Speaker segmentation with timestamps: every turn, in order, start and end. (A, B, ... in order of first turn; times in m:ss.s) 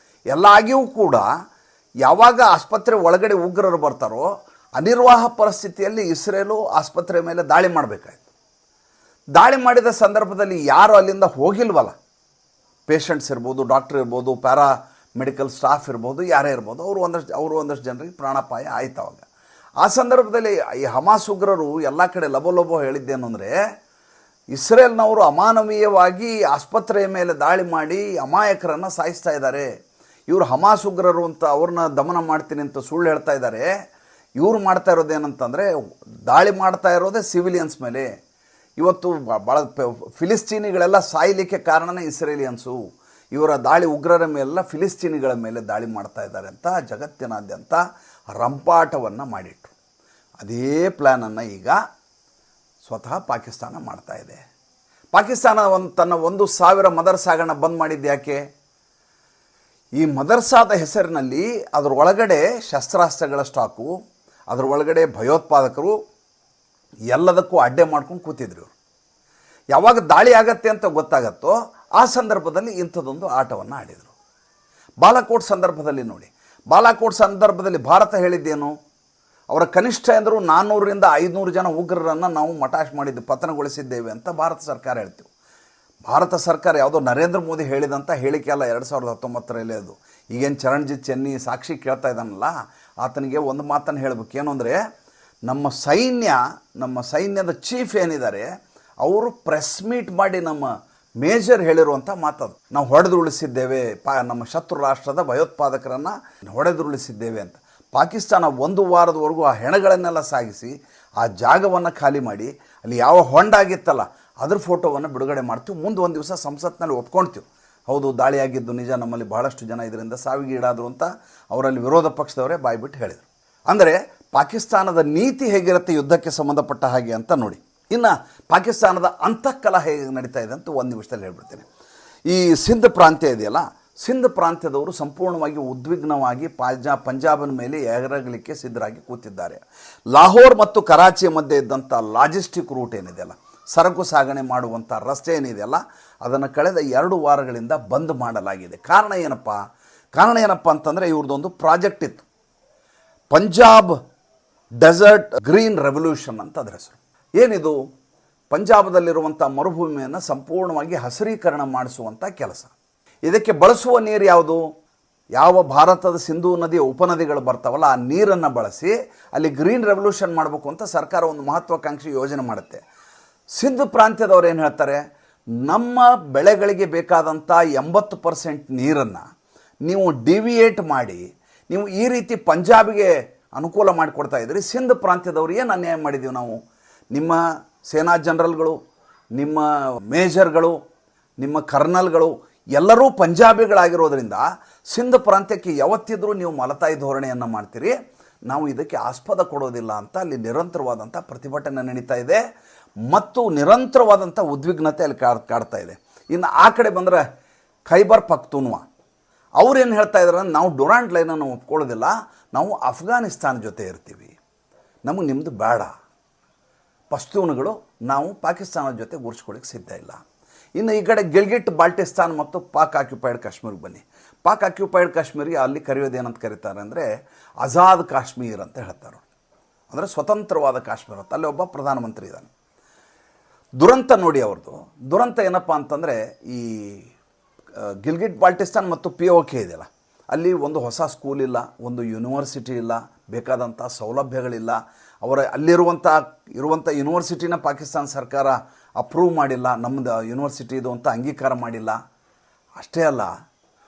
0:00.3-0:01.3 A
0:02.0-0:08.2 A
0:09.4-0:12.0 A
0:12.9-0:19.2 A
0:19.8-0:23.5 A
0:24.5-0:29.7 A
0:30.3-0:33.7 A
0:34.4-0:35.7 A
0:36.3-0:38.1 A
0:38.8-0:42.8 A
0:43.3-0:47.8 A
0:48.3-0:49.7 A
0:50.4-0:51.8 A
0:52.8-0:54.4 A
0:55.1-0:58.4 A
1:00.0-1:03.9 A
1:04.5-1:06.0 A
1:07.1-1:08.7 A
1:09.7-1:14.1 A
1:15.0-1:18.7 A
1:19.5-1:25.3 A
1:26.1-1:34.8 A
1:35.5-1:38.5 A
1:39.0-1:40.7 A
1:41.2-2:11.6 A
2:12.3-2:19.6 A
2:20.1-2:29.6 A
2:30.1-2:32.2 A
2:33.3-2:33.9 A
2:34.8-2:37.8 A
2:38.5-2:42.7 A
2:43.2-2:44.6 A
2:45.4-2:52.8 A
2:53.6-2:55.0 A
2:55.6-2:59.2 A
2:59.8-3:06.6 A
3:07.1-3:08.8 A
3:09.4-3:10.8 A
3:11.4-3:17.9 A
3:18.5-3:22.4 A
3:23.1-3:27.2 A
3:27.9-3:28.8 A
3:29.6-3:34.4 A
3:35.0-3:35.9 A
3:37.1-3:40.2 A
3:40.8-3:47.1 A
3:47.6-3:49.2 A
3:49.9-3:52.5 A
3:53.8-3:57.1 A
3:58.0-4:12.0 A
4:12.8-4:13.3 A